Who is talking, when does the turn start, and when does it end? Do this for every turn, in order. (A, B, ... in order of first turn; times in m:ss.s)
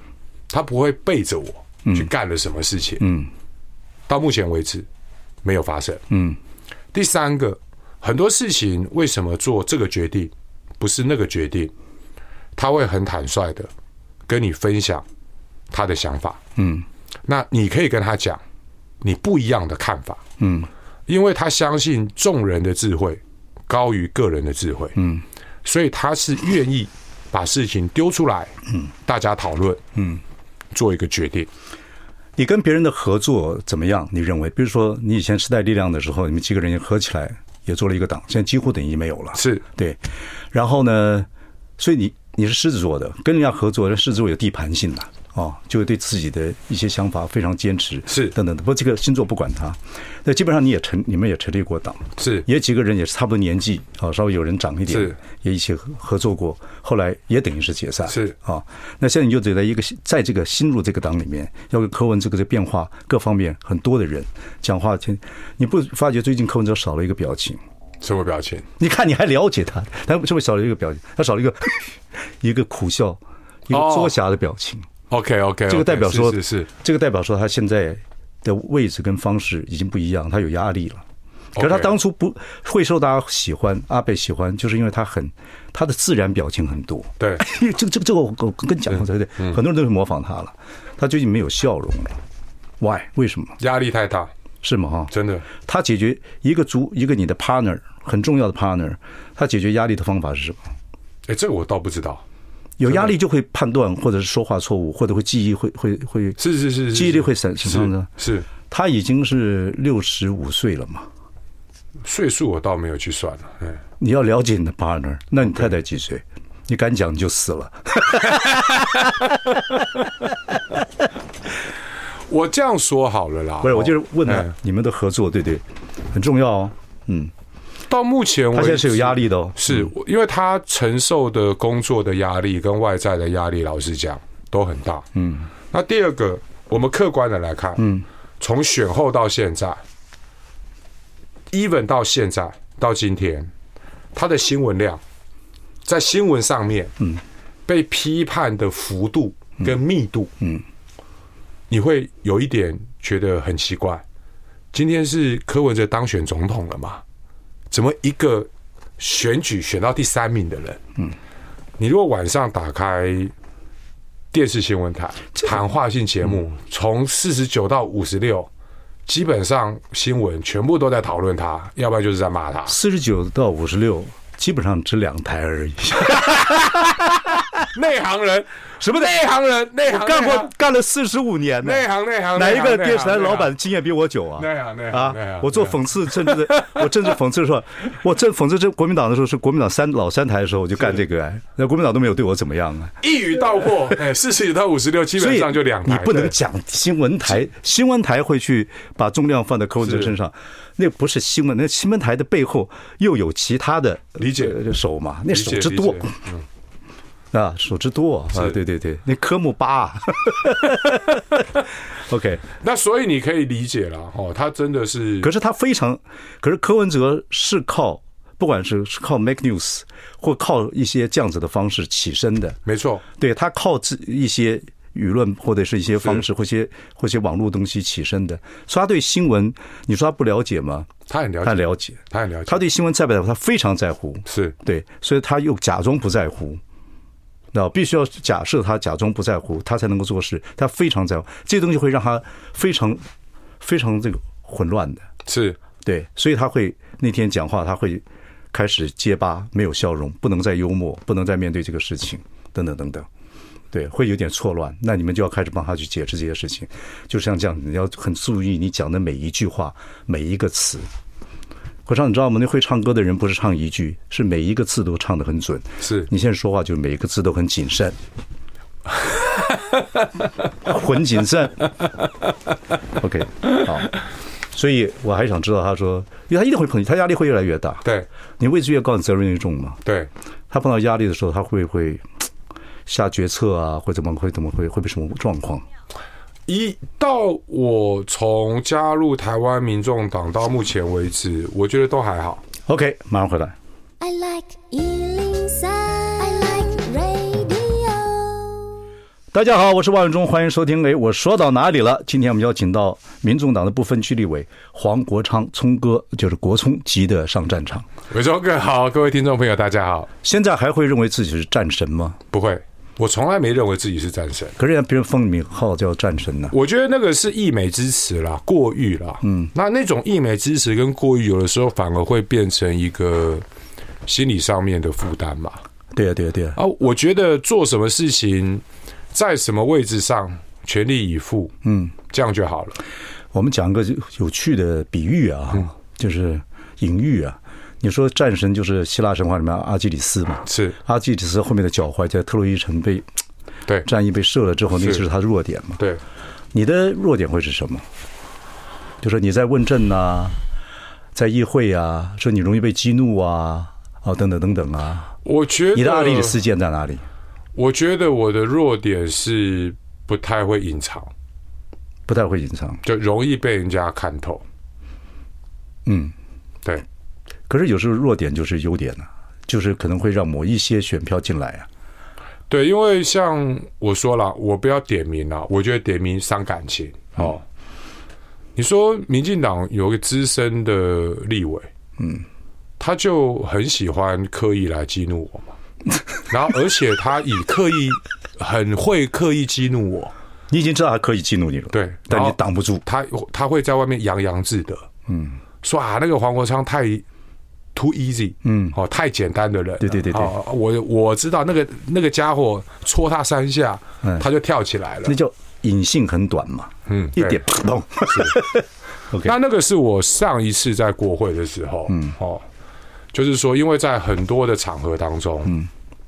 0:00.5-0:03.0 A
0:03.0-0:03.3 B
0:04.1-0:04.8 A
0:05.4-0:06.0 A
0:06.1-0:06.4 B
0:06.9-0:11.7 A
0:12.6-0:13.7 A
0:14.3-0:15.0 A
0:15.7-0:16.4 A
0:16.6-0:16.8 B
0:17.2-0:18.4 A
0:19.0-0:20.2 A
0:20.4-0:20.7 B
0:21.1-0:25.0 A
0:25.0-0:25.2 B
0:25.6-0:29.8 A
0:29.9-0:30.2 B
0:30.7-0:31.5 A
0:32.4-0:40.0 B
0:39.3-0:39.6 A
0:40.5-1:07.6 B
0:48.1-0:48.3 A
0:52.2-0:52.4 A
0:54.9-0:55.2 A
0:58.1-0:58.3 A
1:08.0-1:08.6 A
1:08.8-1:14.9 B
1:13.7-1:14.1 A
1:15.1-1:16.7 A
1:15.7-1:21.0 B
1:21.6-1:21.9 A
1:21.6-1:32.2 B
1:32.8-1:33.6 B
1:33.6-1:34.3 A
1:34.6-1:40.6 B
1:35.1-1:35.4 A
1:41.3-1:42.2 A
1:42.8-1:48.1 B
1:42.8-1:43.1 A
1:46.4-1:48.5 A
1:48.7-1:51.1 B
1:52.0-1:53.8 A
1:54.0-1:59.8 B
2:02.3-2:04.5 A
2:03.6-2:07.3 B
2:07.9-2:15.1 A
2:08.5-2:09.9 B
2:15.1-2:15.5 B
2:15.7-2:17.8 A
2:17.8-2:18.0 B
2:18.4-2:19.8 A
2:21.5-2:23.5 A
2:24.1-2:25.0 A
2:25.8-2:27.0 A
2:27.6-2:30.3 A
2:31.7-2:34.0 A
2:34.7-2:37.0 A
2:37.7-2:40.8 A
2:41.8-2:43.3 A
2:44.3-2:48.5 A
2:49.0-2:52.8 A
2:52.7-2:57.4 B
2:56.2-2:56.6 A
2:57.7-3:00.5 A
2:58.8-2:59.2 B
2:59.8-3:13.0 B
3:01.6-3:03.5 A
3:04.4-3:06.9 A
3:13.0-3:16.3 A
3:15.2-3:26.1 B
3:19.8-3:20.1 A
3:24.2-3:24.6 A
3:25.3-3:26.4 A
3:27.3-3:32.4 B
3:32.6-3:35.3 A
3:35.2-3:42.6 B
3:42.6-3:43.0 A
3:43.2-3:50.9 B
3:51.1-3:52.6 A
3:51.4-3:56.6 B
3:54.3-3:54.5 A
3:57.5-4:03.0 B
4:03.6-4:05.0 B
4:05.3-4:05.6 A
4:05.8-4:13.1 B
4:13.7-4:20.9 B
4:21.8-4:28.0 B
4:25.8-4:26.1 A
4:30.6-4:31.7 B
4:32.9-4:33.9 B
4:34.5-4:37.8 B
4:38.4-4:39.8 B
4:39.8-4:40.1 A
4:40.5-4:42.0 B
4:42.8-4:45.6 B
4:46.5-4:52.4 A
4:52.6-4:53.5 B
4:54.0-4:58.8 C
4:59.3-5:07.8 B
5:08.1-5:10.1 A
5:10.2-5:12.2 B
5:12.3-5:14.6 A
5:14.6-5:16.5 B
5:16.5-5:23.4 A
5:19.2-5:19.5 B
5:24.0-5:25.6 A
5:25.9-5:26.6 B
5:26.6-5:31.5 A
5:31.6-5:31.9 B
5:32.1-5:32.8 A
5:33.3-5:43.0 B
5:40.4-5:40.8 A
5:43.8-5:45.8 B
5:44.8-5:45.0 A
5:46.5-5:47.8 B
5:49.0-5:50.4 B
5:51.1-5:55.1 B
5:55.2-5:56.4 A
5:55.7-5:57.0 B
5:57.6-6:01.1 A
6:02.1-6:02.8 B
6:02.8-6:04.4 A
6:05.8-6:06.1 B
6:07.5-6:11.7 B
6:12.5-6:17.4 A
6:18.6-6:21.7 A
6:22.0-6:22.2 B
6:22.8-6:25.5 A
6:26.3-6:30.1 A
6:30.5-6:32.8 B
6:31.7-6:34.9 A
6:35.1-6:35.4 B
6:35.6-6:37.0 A
6:37.7-6:45.2 A
6:38.4-6:38.8 B
6:39.8-6:40.3 B
6:45.0-6:49.3 B
6:46.9-6:47.4 A
6:48.1-6:48.4 A
6:49.2-6:52.4 A
6:51.9-6:52.2 B
6:53.1-6:55.6 A